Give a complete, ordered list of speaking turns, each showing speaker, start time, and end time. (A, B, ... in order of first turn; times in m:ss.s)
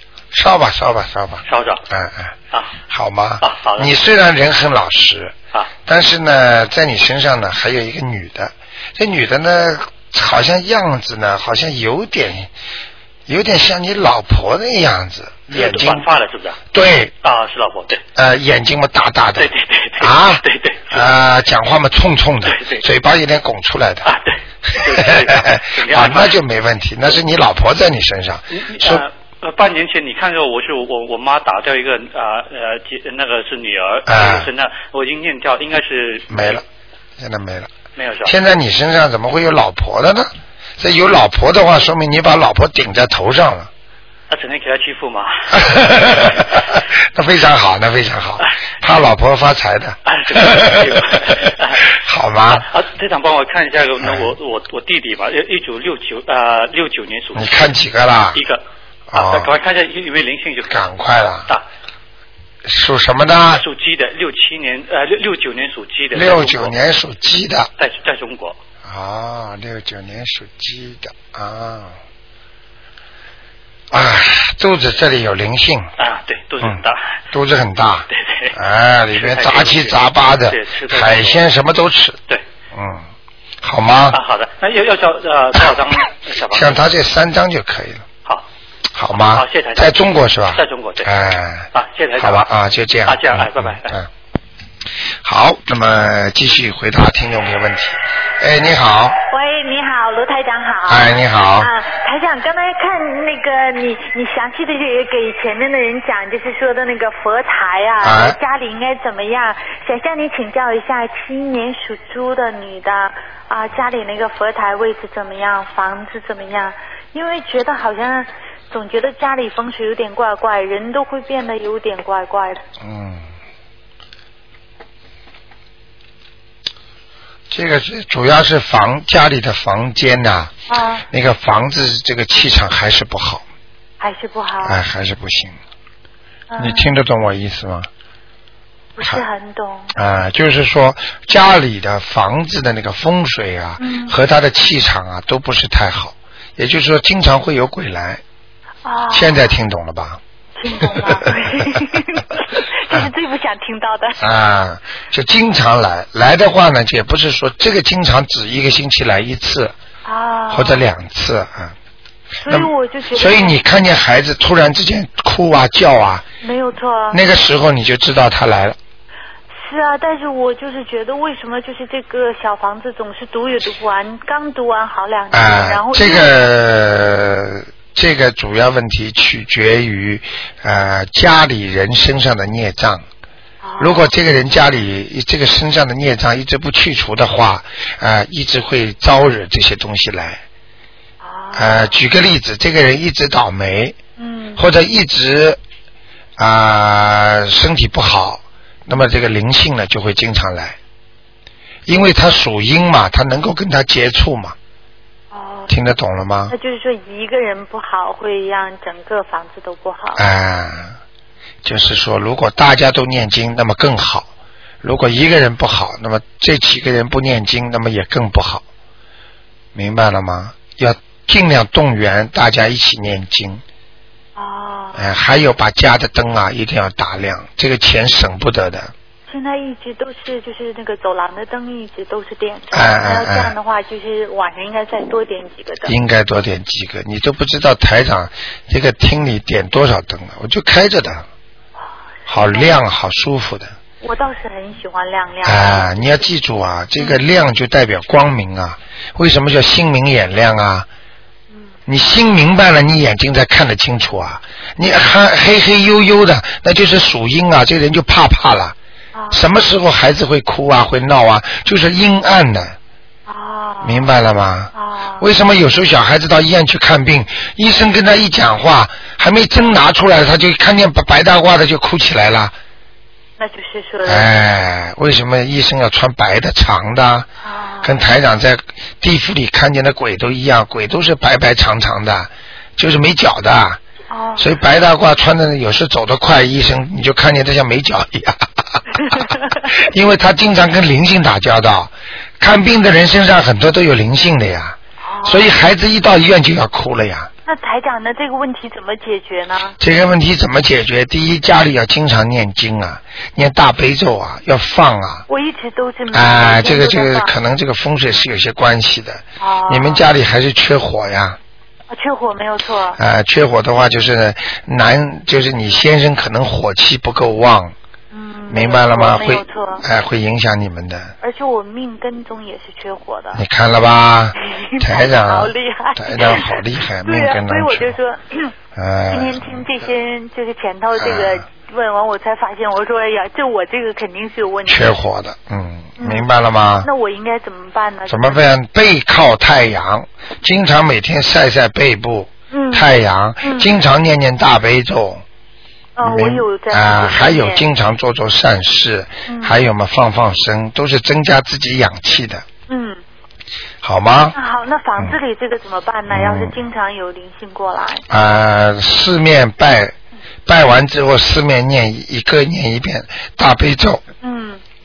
0:00.3-0:02.3 A
0:01.5-0:01.8 B
0:02.9-0:05.4 A
0:03.4-0:03.9 B
0:05.9-0:12.5 A
0:13.3-0:16.1 A
0:15.5-0:16.6 B
0:16.7-0:17.1 A
0:17.2-0:18.0 B
0:18.1-0:24.1 A
0:19.4-0:21.1 B
0:22.4-0:22.9 B
0:24.0-0:26.4 B
0:24.7-0:29.0 A
0:28.5-0:36.6 B
0:34.1-0:34.5 A
0:36.3-0:36.6 A
0:37.2-0:37.7 A
0:38.0-0:38.4 B
0:38.2-0:43.7 A
0:44.3-0:46.4 B
0:45.5-0:52.7 A
0:50.0-0:51.8 B
0:52.5-0:57.7 B
0:54.0-0:54.3 A
0:57.4-0:58.4 A
0:58.3-0:58.6 B
0:59.1-0:59.5 A
0:59.1-1:00.9 B
1:00.7-1:01.5 A
1:02.6-1:03.7 A
1:03.5-1:06.7 B
1:06.1-1:07.7 A
1:07.8-1:08.6 B
1:08.8-1:12.0 A
1:13.9-1:15.9 A
1:16.0-1:17.1 B
1:16.6-1:22.2 A
1:18.1-1:18.6 B
1:19.1-1:21.5 B
1:22.7-1:23.1 A
1:23.6-1:24.2 A
1:24.1-1:26.8 B
1:26.5-1:28.1 A
1:28.9-1:34.1 A
1:29.1-1:31.1 B
1:31.7-1:32.5 B
1:33.0-1:34.0 B
1:35.2-1:39.2 A
1:39.2-2:02.6 C
1:40.9-1:41.7 A
1:48.0-1:48.4 A
2:02.8-2:03.3 A
2:07.5-2:10.5 A
2:10.7-2:11.1 C
2:11.1-2:13.4 A
2:14.0-2:14.8 C
2:14.6-2:15.6 A
2:16.5-2:17.0 C
2:16.6-2:17.9 A
2:19.0-2:19.9 C
2:19.9-2:28.2 A
2:23.8-2:24.1 C
2:28.8-2:29.6 C
2:29.1-2:30.2 A
2:30.6-2:34.2 C
2:30.8-2:31.2 A
2:34.2-2:39.8 A
2:40.0-2:40.8 C
2:40.5-2:41.8 A
2:42.4-2:43.6 C
2:42.5-2:46.3 A
2:46.4-2:47.2 C
2:47.1-2:48.8 A
2:49.6-2:56.4 C
2:55.3-3:03.0 A
3:03.6-3:04.1 C
3:03.8-3:10.4 A
3:11.2-3:12.0 C
3:11.6-3:14.0 A
3:14.2-3:14.7 C
3:14.6-3:15.6 A
3:16.4-3:20.8 A
3:21.9-3:24.6 A
3:25.3-3:25.7 C
3:25.7-3:26.5 A
3:26.5-3:30.2 C
3:30.2-3:31.0 A
3:31.6-3:34.3 A
3:34.8-3:38.6 A
3:39.8-3:43.6 A
3:44.4-3:45.2 C
3:45.0-3:48.9 A
3:49.3-3:56.0 C
3:52.7-3:53.6 A
3:55.8-4:01.3 A
4:02.3-4:02.8 C
4:02.3-4:03.7 A
4:04.0-4:06.4 C
4:05.4-4:10.9 A
4:07.0-4:07.2 C
4:11.9-4:18.8 A
4:19.1-4:19.5 C
4:19.3-4:22.8 A
4:23.3-4:24.2 C
4:23.8-4:32.6 A
4:24.7-4:25.3 C
4:33.4-4:34.3 C
4:34.1-4:37.3 A
4:37.4-4:38.0 C
4:37.8-4:43.8 A
4:44.1-4:44.6 C
4:44.4-4:48.5 A
4:49.1-4:57.3 A
4:55.0-4:55.6 C
4:57.4-4:59.8 C
4:59.8-5:05.2 A
5:05.3-5:07.3 C
5:06.1-5:11.4 A
5:09.4-5:10.1 C
5:11.9-5:13.0 C
5:13.0-5:17.7 A
5:18.1-5:19.8 C
5:18.5-5:21.1 A
5:21.2-5:23.4 C
5:23.4-5:28.0 A
5:24.4-5:28.5 C
5:28.8-5:29.6 A
5:29.1-5:35.0 C
5:31.0-5:31.5 A
5:34.7-5:36.9 A
5:36.0-5:36.3 C
5:36.8-5:38.4 C
5:38.1-5:45.2 A
5:42.5-5:43.7 C
5:46.0-5:47.7 C
5:46.0-5:52.4 A
5:49.3-5:49.6 C
5:52.7-5:53.0 C
5:53.8-5:54.4 A
5:54.3-5:58.0 C
5:56.1-5:56.6 A
5:58.1-6:00.0 A
6:00.5-6:04.0 A
6:04.2-6:04.6 C